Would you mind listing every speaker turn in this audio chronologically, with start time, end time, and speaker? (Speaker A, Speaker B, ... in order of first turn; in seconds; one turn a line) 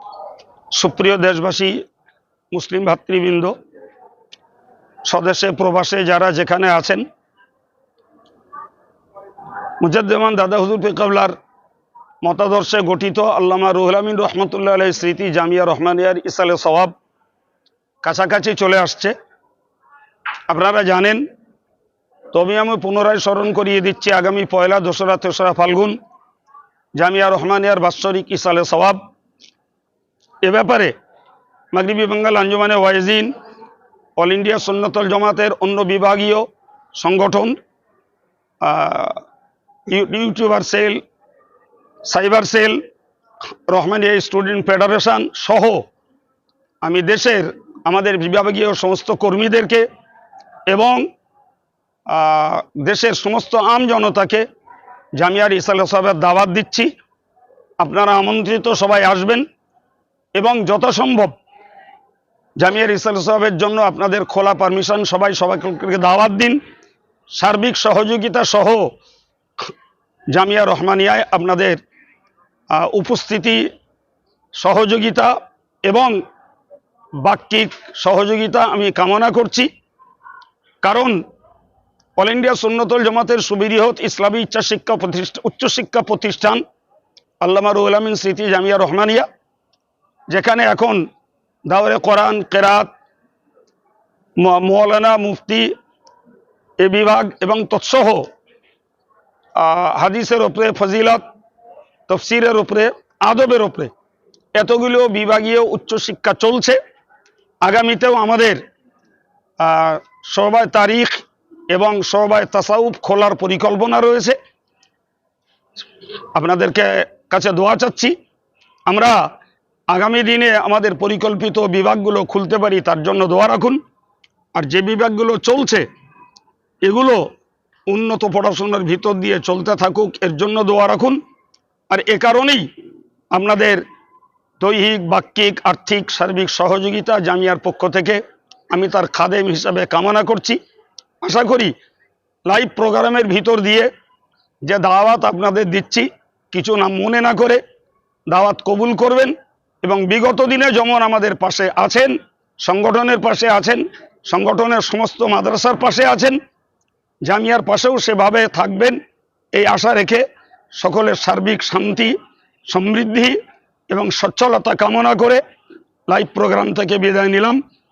Speaker A: 0.7-1.8
Speaker A: 2.5-3.5
Speaker A: 5.0-7.0
Speaker A: 9.8-11.3
Speaker A: 12.2-16.9
Speaker A: 18.0-19.1
Speaker A: 20.5-21.2
Speaker A: 22.3-26.0
Speaker A: 26.9-29.1
Speaker A: 30.4-30.9
Speaker A: 31.7-33.3
Speaker A: 34.2-37.5
Speaker A: 38.6-39.2
Speaker A: 39.9-41.0
Speaker A: 42.0-42.8
Speaker A: 43.7-45.9
Speaker A: 46.8-49.9
Speaker A: 50.7-51.0
Speaker A: 52.1-54.5
Speaker A: 55.2-56.9
Speaker A: 57.8-59.5
Speaker A: 60.3-61.3
Speaker A: 62.6-66.6
Speaker A: 67.3-68.9
Speaker A: 70.3-71.8
Speaker A: 72.7-73.6
Speaker A: 74.6-76.2
Speaker A: 77.2-79.7
Speaker A: 80.8-81.2
Speaker A: 82.2-86.6
Speaker A: 87.4-89.3
Speaker A: 90.3-91.0
Speaker A: 91.7-92.9
Speaker A: 94.4-95.7
Speaker A: 96.8-98.3
Speaker A: 99.6-101.2
Speaker A: 102.1-103.9
Speaker A: 104.5-106.8
Speaker A: 107.6-108.6
Speaker A: 109.6-114.4
Speaker A: 116.3-118.1
Speaker A: 118.9-119.2
Speaker A: 119.9-123.8
Speaker A: 124.5-125.9
Speaker A: 126.8-127.3
Speaker A: 127.9-131.2
Speaker A: 131.9-132.7
Speaker A: 133.3-133.8
Speaker A: 134.6-138.2
Speaker A: 138.7-140.6
Speaker A: 141.2-141.7
Speaker A: 142.4-143.9
Speaker A: 144.6-147.6
Speaker A: 148.3-156.4
Speaker A: 157.2-159.0
Speaker A: 159.5-162.1
Speaker A: 162.7-163.4
Speaker A: 163.9-165.4
Speaker A: 166.1-167.6